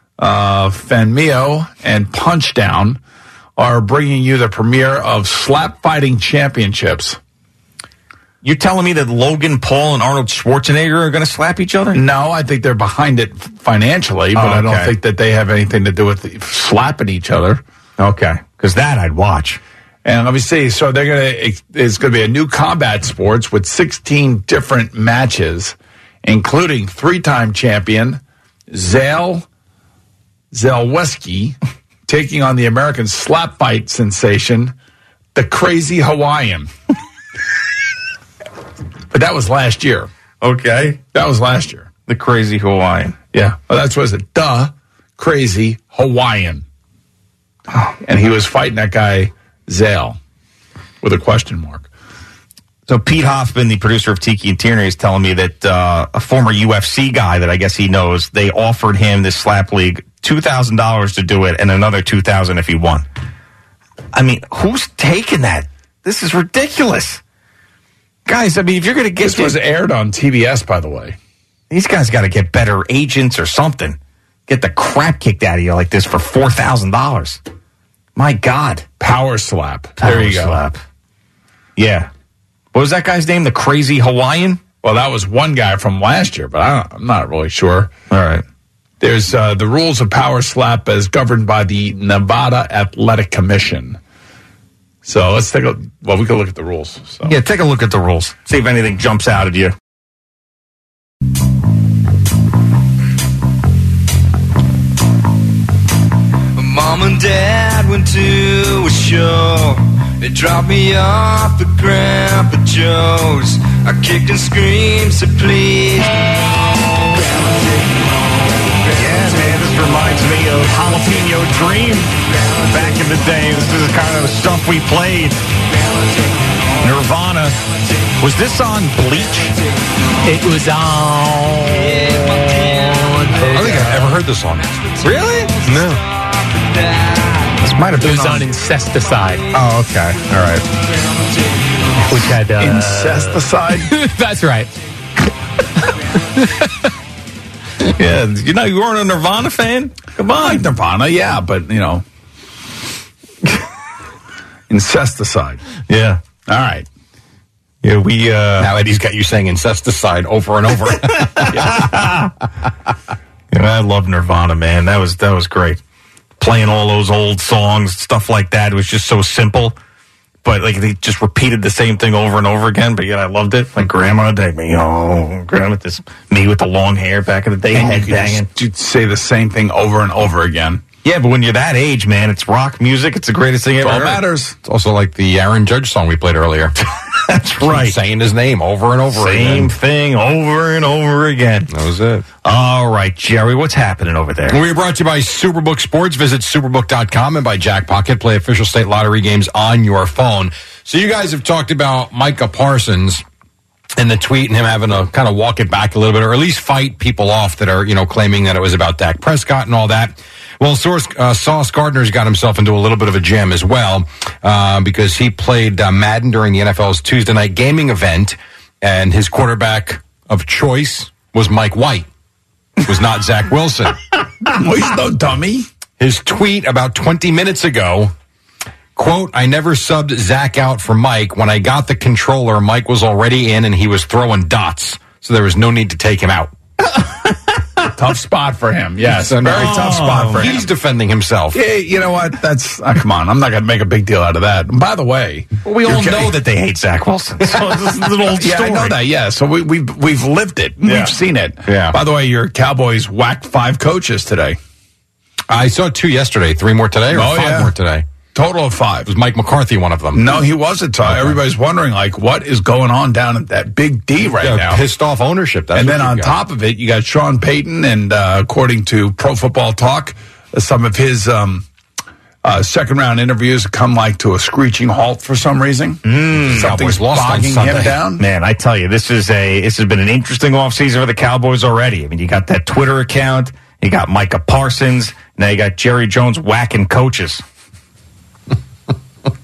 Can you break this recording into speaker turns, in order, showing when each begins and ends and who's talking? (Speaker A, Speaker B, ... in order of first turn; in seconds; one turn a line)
Speaker A: 0.2-3.0
Speaker A: 3.6-7.2
Speaker B: 8.4-12.0
Speaker A: 11.9-17.6
Speaker B: 14.3-14.9
Speaker B: 18.0-19.6
Speaker A: 20.1-29.5
Speaker A: 30.5-31.6
Speaker A: 32.1-34.7
Speaker A: 35.4-36.7
Speaker A: 39.1-40.1
Speaker B: 40.4-41.0
Speaker A: 41.1-41.9
Speaker B: 42.1-43.2
Speaker A: 43.3-46.6
Speaker A: 48.0-50.2
Speaker A: 51.0-51.9
Speaker B: 52.9-63.0
Speaker B: 64.1-67.2
Speaker B: 68.3-69.6
Speaker A: 69.2-71.2
Speaker B: 71.7-77.4
Speaker B: 78.2-78.9
Speaker A: 79.0-80.6
Speaker B: 80.0-80.8
Speaker B: 81.8-82.1
Speaker B: 82.7-84.6
Speaker A: 84.8-87.9
Speaker B: 88.1-88.4
Speaker A: 89.0-94.0
Speaker A: 95.0-97.3
Speaker B: 97.2-99.8
Speaker C: 106.6-116.3
Speaker C: 117.1-117.7
Speaker B: 119.0-125.4
Speaker B: 126.8-127.6
Speaker B: 128.2-129.6
Speaker D: 130.2-133.9
Speaker C: 131.6-133.7
Speaker E: 133.5-134.7
Speaker C: 135.0-137.6
Speaker B: 135.0-135.5
Speaker E: 135.7-136.0
Speaker B: 137.6-138.4
Speaker D: 137.9-139.5
Speaker B: 139.5-140.6
Speaker D: 142.0-144.7
Speaker A: 142.6-143.9
Speaker D: 146.4-146.7
Speaker B: 148.0-150.2
Speaker A: 150.2-152.0
Speaker A: 154.7-155.6
Speaker B: 155.9-156.2
Speaker A: 156.5-156.9
Speaker B: 157.8-158.7
Speaker E: 158.6-161.8
Speaker B: 161.4-162.3
Speaker B: 163.5-165.8
Speaker B: 166.4-169.8
Speaker B: 170.4-178.5
Speaker A: 177.7-180.8
Speaker B: 181.0-184.2
Speaker A: 183.8-184.6
Speaker E: 184.6-186.8
Speaker B: 187.2-188.0
Speaker E: 187.6-189.7
Speaker B: 189.1-191.7
Speaker E: 191.7-192.2
Speaker B: 192.4-194.6
Speaker E: 194.5-203.2
Speaker E: 204.0-222.1
Speaker E: 222.8-224.0
Speaker A: 224.5-225.7
Speaker E: 226.0-228.1
Speaker E: 229.0-236.5
Speaker A: 237.9-240.7
Speaker E: 239.1-241.6
Speaker B: 239.5-240.5
Speaker A: 241.5-246.3
Speaker B: 245.7-248.9
Speaker A: 248.3-254.6
Speaker E: 251.7-252.0
Speaker E: 255.5-258.1
Speaker A: 257.1-257.7
Speaker A: 258.3-259.1
Speaker E: 259.1-260.4
Speaker A: 260.1-264.8
Speaker E: 261.1-261.4
Speaker E: 264.4-266.4
Speaker A: 265.7-271.6
Speaker A: 272.4-278.2
Speaker B: 276.0-276.9
Speaker E: 276.4-278.0
Speaker B: 278.2-287.4